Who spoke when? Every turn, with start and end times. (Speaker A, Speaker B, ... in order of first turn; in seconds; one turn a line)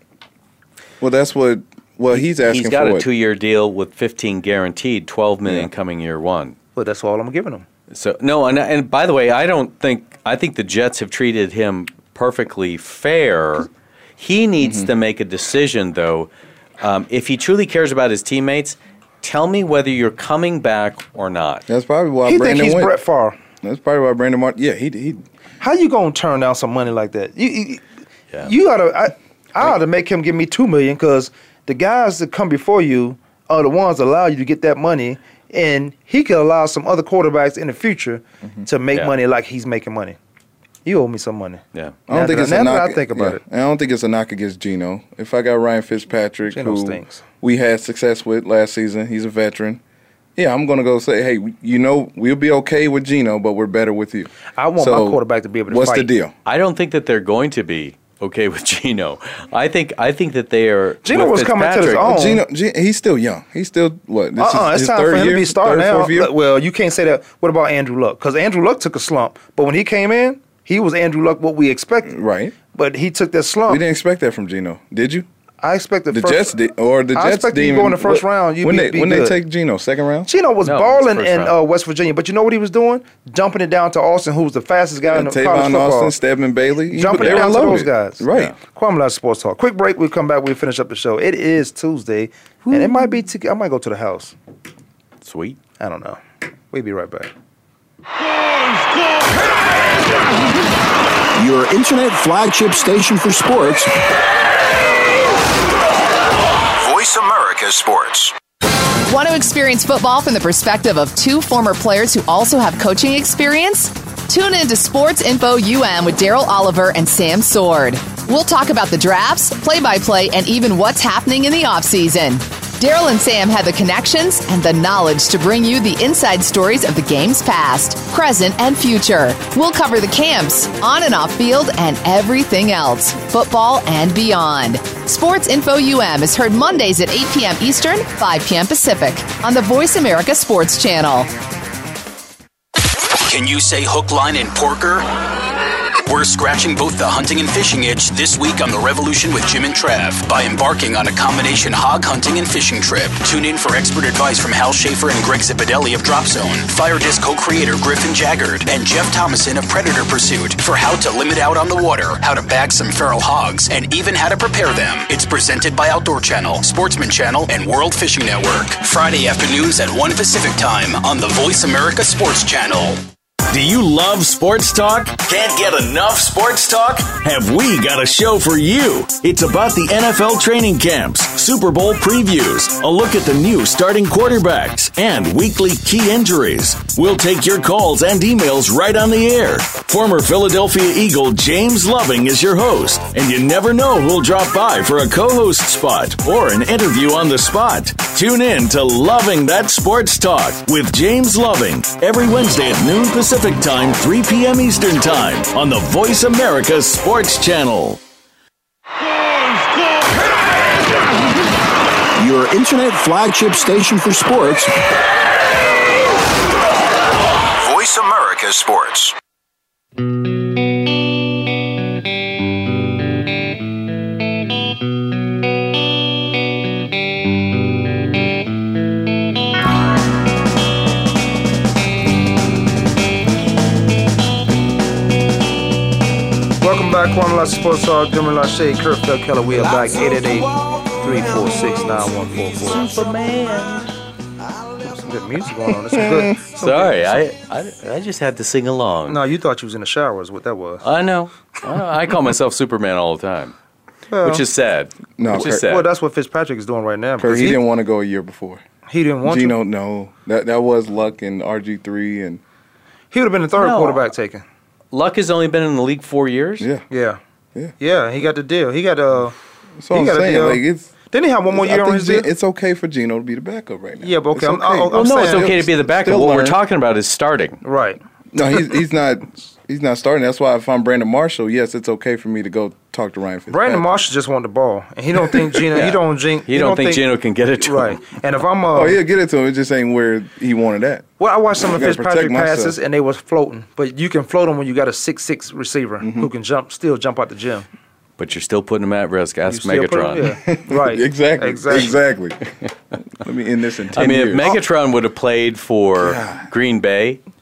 Speaker A: 1.0-3.1
Speaker B: 2.1-6.5
Speaker C: 6.8-7.7
Speaker B: 7.9-21.6
Speaker A: 14.6-14.9
Speaker A: 21.7-22.9
Speaker C: 22.3-23.4
Speaker A: 23.6-25.2
Speaker C: 25.6-27.8
Speaker C: 28.4-40.2
Speaker C: 40.8-43.4
Speaker A: 42.1-49.8
Speaker C: 46.5-47.2
Speaker A: 50.4-56.3
Speaker C: 54.5-56.1
Speaker B: 56.5-62.1
Speaker C: 61.0-62.4
Speaker A: 62.0-66.3
Speaker C: 64.4-72.1
Speaker A: 72.0-72.5
Speaker C: 72.7-73.8
Speaker A: 73.7-75.3
Speaker C: 75.6-76.5
Speaker A: 76.1-80.3
Speaker C: 77.1-79.4
Speaker C: 80.3-86.1
Speaker B: 80.6-81.5
Speaker A: 85.1-88.5
Speaker C: 86.9-94.3
Speaker B: 87.2-87.5
Speaker B: 95.2-95.6
Speaker C: 95.8-97.3
Speaker D: 101.4-103.9
Speaker E: 106.8-108.3
Speaker F: 109.1-141.3
Speaker G: 143.2-145.1
Speaker G: 146.1-173.0
Speaker H: 173.5-208.0
Speaker D: 212.2-214.7
Speaker E: 217.6-219.2
Speaker C: 236.6-242.9
Speaker B: 242.5-243.9
Speaker C: 244.8-247.1
Speaker A: 245.9-246.3
Speaker B: 246.6-249.2
Speaker C: 249.1-250.8
Speaker B: 250.8-253.6
Speaker C: 254.1-254.4
Speaker B: 254.2-255.9
Speaker A: 255.2-255.7
Speaker C: 255.4-257.6
Speaker A: 257.2-258.6
Speaker C: 258.9-259.6
Speaker A: 259.2-262.4
Speaker C: 263.1-264.4
Speaker B: 263.6-264.1
Speaker B: 264.9-266.7
Speaker C: 266.9-267.2
Speaker C: 267.8-269.3
Speaker A: 269.8-270.9
Speaker C: 269.9-272.3
Speaker A: 271.5-276.6
Speaker C: 274.0-275.5
Speaker B: 274.9-277.6
Speaker C: 277.6-278.0
Speaker A: 278.3-284.0
Speaker C: 283.5-287.1
Speaker A: 285.3-285.6
Speaker B: 285.7-288.0
Speaker C: 287.6-289.0
Speaker A: 288.7-291.1
Speaker C: 291.2-297.7
Speaker A: 291.7-292.8
Speaker A: 296.0-296.3
Speaker B: 298.2-300.4
Speaker C: 299.5-302.0
Speaker A: 300.4-302.5
Speaker A: 303.1-304.6
Speaker B: 303.9-307.2
Speaker A: 306.0-306.4